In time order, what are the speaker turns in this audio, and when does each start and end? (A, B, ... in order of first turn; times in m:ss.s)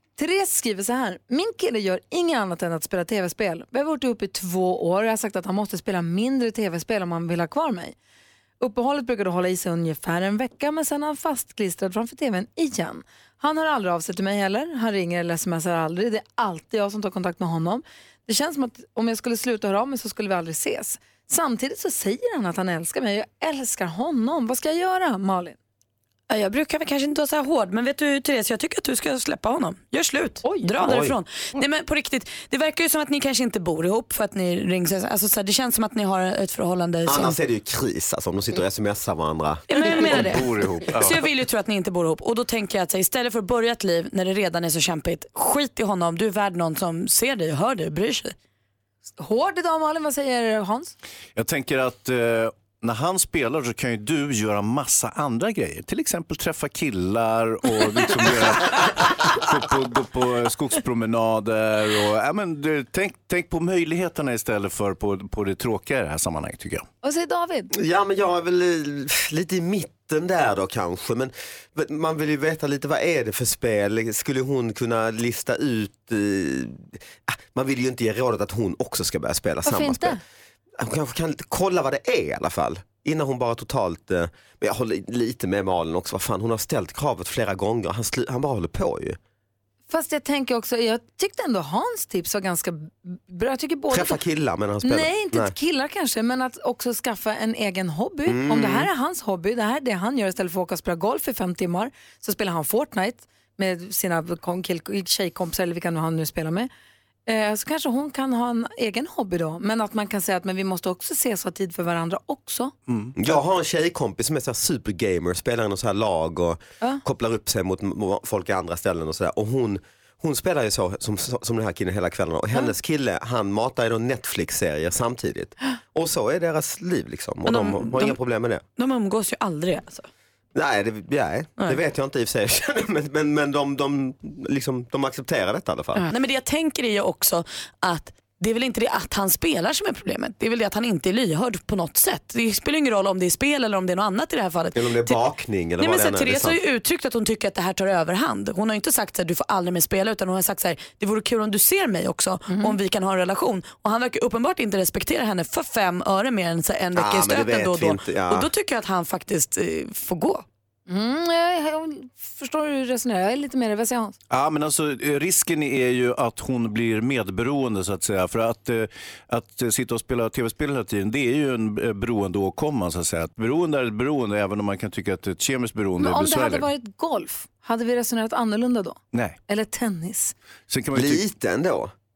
0:00.2-0:07.9 A
0:08.6-0:25.6 A
0:26.3-0:37.4 B
0:30.8-0:31.2 C
0:37.0-0:40.3 C
0:39.7-0:48.3 B
0:40.0-0:41.2 D
0:49.2-0:50.9 A
0:51.4-1:06.8 D
1:07.0-1:07.7 A
1:07.7-1:20.2 C
1:19.6-1:20.2 A
1:20.8-1:29.2 C
1:29.9-1:34.2 A
1:33.9-1:35.5 C
1:34.8-1:46.7 A
1:38.2-1:38.9 C
1:47.2-1:52.7 A
1:52.9-1:53.4 D
1:53.2-2:08.6 C
2:07.4-2:08.2 B
2:08.8-2:10.0 B
2:10.5-2:16.1 C
2:16.0-2:25.2 B
2:24.7-2:26.6 C
2:25.8-2:40.4 B
2:32.5-2:32.8 A
2:36.9-2:38.5 C
2:40.9-2:44.2 A
2:44.3-2:56.7 D
2:56.0-3:00.3 A
2:59.1-2:59.4 D
3:00.7-3:01.2 D
3:00.9-3:01.9 C